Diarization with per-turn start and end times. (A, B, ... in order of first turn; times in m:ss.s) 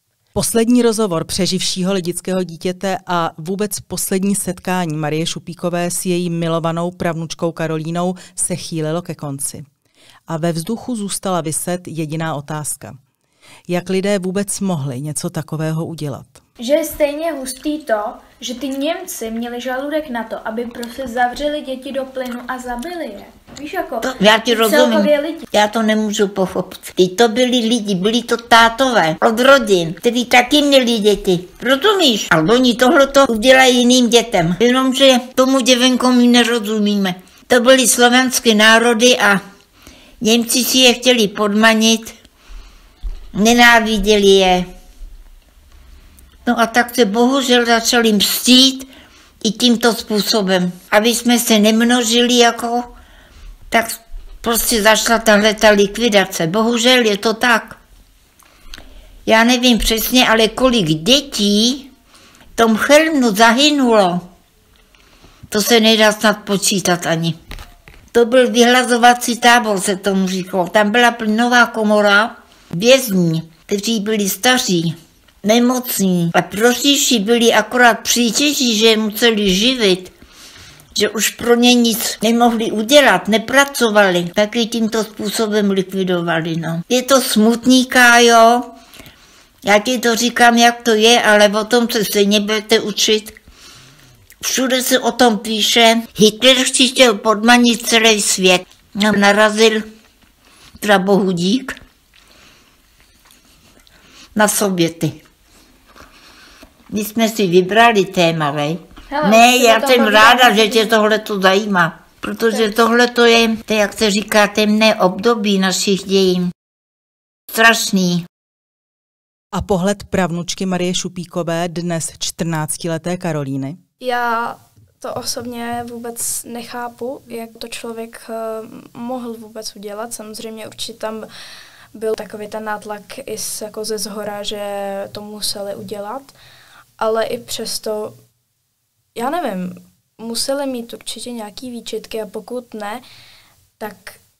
0:00.3-0:09.6 A
0:10.3-0:12.9 A
0:13.7-0:16.4 A
0:16.6-0:25.5 B
0:24.0-0:39.4 C
0:40.2-0:42.1 C
0:43.3-0:44.7 C
0:46.4-0:48.9 C
0:49.4-0:52.9 C
0:53.7-0:57.8 C
0:59.2-1:01.9 C
1:02.6-1:04.2 C
1:05.5-1:07.4 C
1:08.1-1:20.1 C
1:20.9-1:28.7 C
1:29.6-1:33.4 C
1:34.4-1:39.9 C
1:40.8-1:41.8 C
1:44.3-1:45.2 C
1:46.9-1:56.5 C
1:49.1-1:50.9 B
1:57.5-1:58.3 C
1:59.5-2:03.8 A
2:04.0-2:11.3 D
2:11.9-2:16.3 D
2:17.0-2:18.2 D
2:19.1-2:23.0 D
2:23.8-2:24.2 D